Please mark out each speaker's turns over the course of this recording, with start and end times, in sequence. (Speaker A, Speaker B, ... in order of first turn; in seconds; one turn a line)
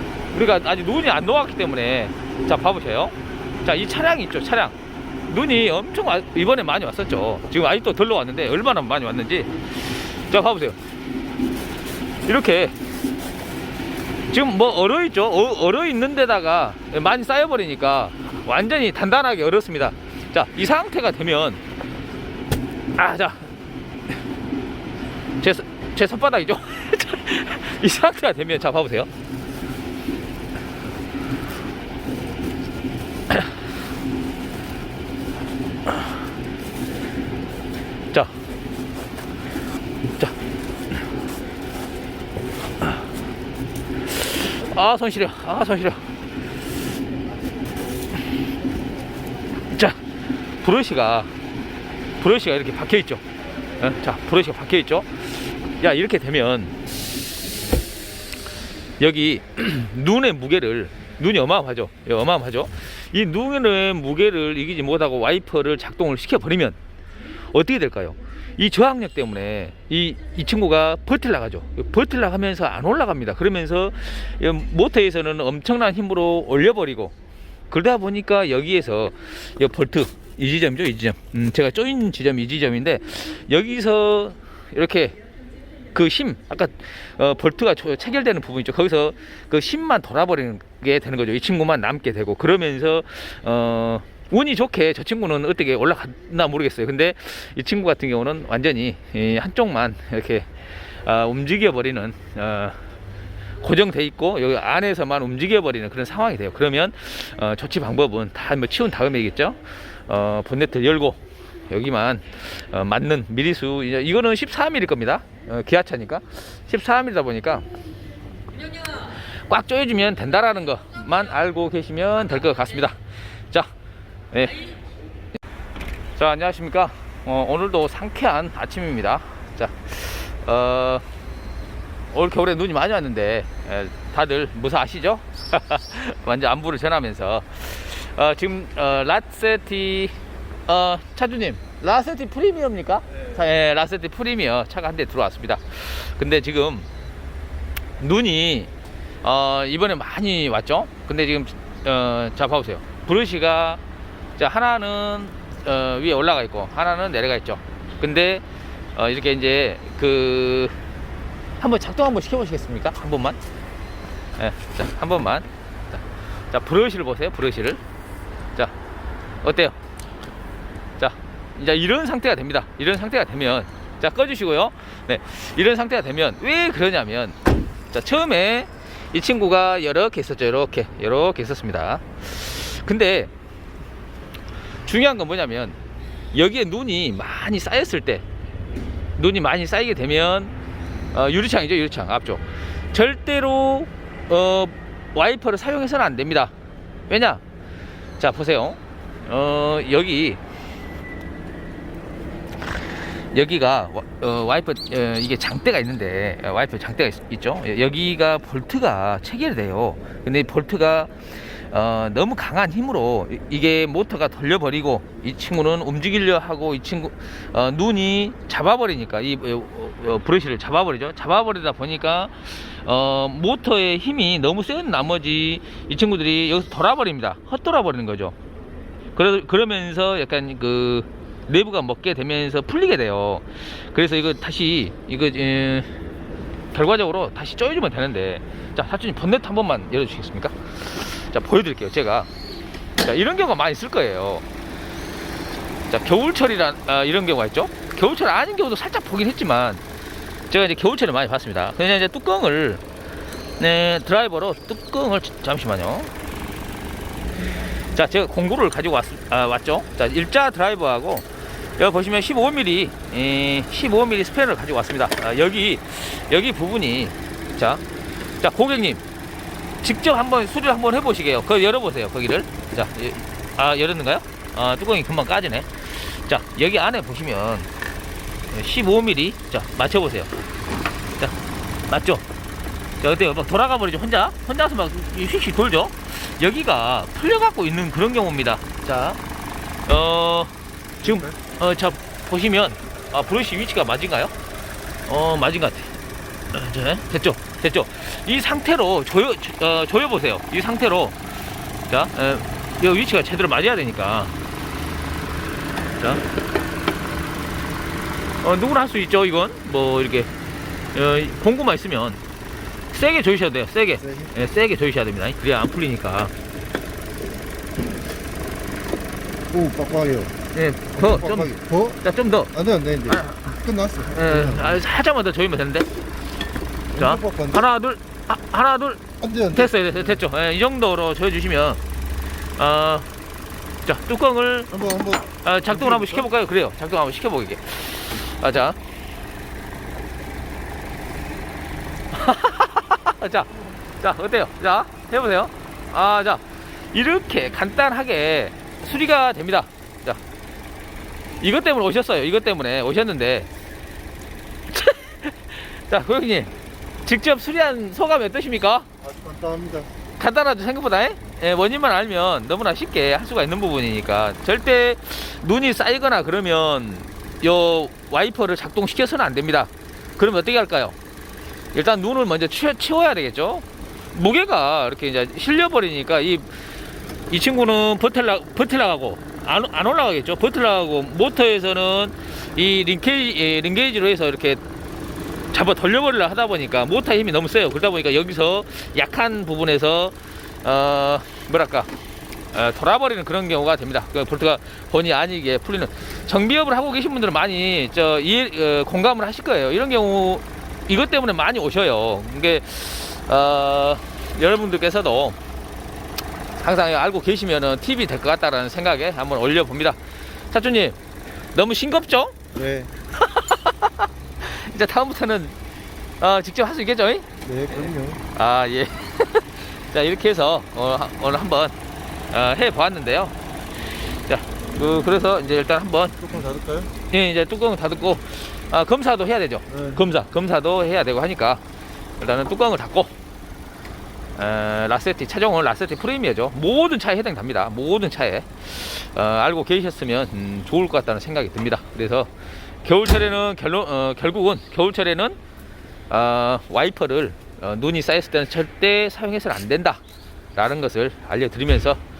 Speaker A: 0.3-4.7
Speaker A: 5.2-10.8
Speaker A: 12.2-12.8
Speaker A: 14.3-21.6
Speaker A: 22.9-23.5
Speaker A: 25.4-29.1
Speaker A: 44.0-46.1
Speaker A: 49.7-51.3
Speaker A: 52.2-53.2
Speaker A: 53.8-56.8
Speaker A: 59.0-66.8
Speaker A: 67.5-77.1
Speaker A: 77.7-85.2
Speaker A: 85.9-102.8
Speaker A: 103.6-117.7
Speaker A: 118.7-123.0
Speaker A: 124.3-124.7
Speaker A: 126.2-131.0
Speaker A: 132.1-140.1
Speaker A: 140.7-146.9
Speaker A: 148.0-148.7
Speaker A: 149.2-153.8
Speaker A: 154.4-158.4
Speaker A: 158.9-160.8
Speaker A: 161.6-163.4
Speaker A: 164.4-167.8
Speaker A: 169.4-169.8
Speaker A: 171.0-177.4
Speaker A: 177.9-183.3
Speaker A: 184.8-185.8
Speaker A: 186.3-188.2
Speaker A: 189.2-190.5
Speaker A: 191.1-196.5
Speaker A: 197.1-197.4
Speaker A: 198.2-200.4
Speaker A: 203.3-228.3
Speaker A: 229.1-236.0
Speaker A: 236.7-242.3
Speaker A: 243.0-244.4
Speaker A: 245.9-249.8
Speaker A: 250.5-252.8
Speaker A: 253.6-256.1
Speaker A: 257.9-267.8
Speaker A: 268.4-269.0
Speaker A: 269.8-277.7
Speaker A: 278.5-280.3
Speaker A: 281.9-282.2
Speaker A: 283.0-289.2
Speaker A: 289.9-294.3
Speaker A: 295.1-296.0
Speaker A: 296.5-301.2
Speaker A: 301.9-304.3
Speaker A: 306.0-306.2
Speaker A: 308.4-310.3
Speaker A: 310.9-312.2
Speaker A: 312.9-316.3
Speaker B: 319.5-320.3
Speaker A: 320.5-325.9
Speaker B: 321.1-321.9
Speaker B: 322.6-324.7
Speaker A: 326.9-331.8
Speaker B: 327.0-327.5
Speaker A: 332.6-333.1
Speaker A: 333.8-338.8
Speaker B: 334.7-335.2
Speaker A: 342.1-346.4
Speaker A: 346.9-350.2
Speaker A: 351.4-353.5
Speaker A: 354.7-356.5
Speaker A: 357.0-358.9
Speaker B: 359.0-359.9
Speaker A: 360.2-370.9
Speaker A: 371.7-376.5
Speaker A: 377.3-384.6
Speaker A: 385.5-391.9
Speaker A: 392.5-405.4
Speaker A: 406.6-410.0
Speaker A: 410.5-411.0
Speaker A: 411.5-412.4
Speaker B: 412.5-412.9
Speaker A: 413.1-415.6
Speaker A: 416.2-421.8
Speaker B: 417.5-418.2
Speaker A: 422.3-426.4
Speaker B: 426.2-426.9
Speaker A: 427.1-431.6
Speaker A: 432.2-433.1
Speaker A: 434.4-442.3
Speaker A: 442.8-445.4
Speaker A: 446.1-450.0
Speaker A: 450.5-452.0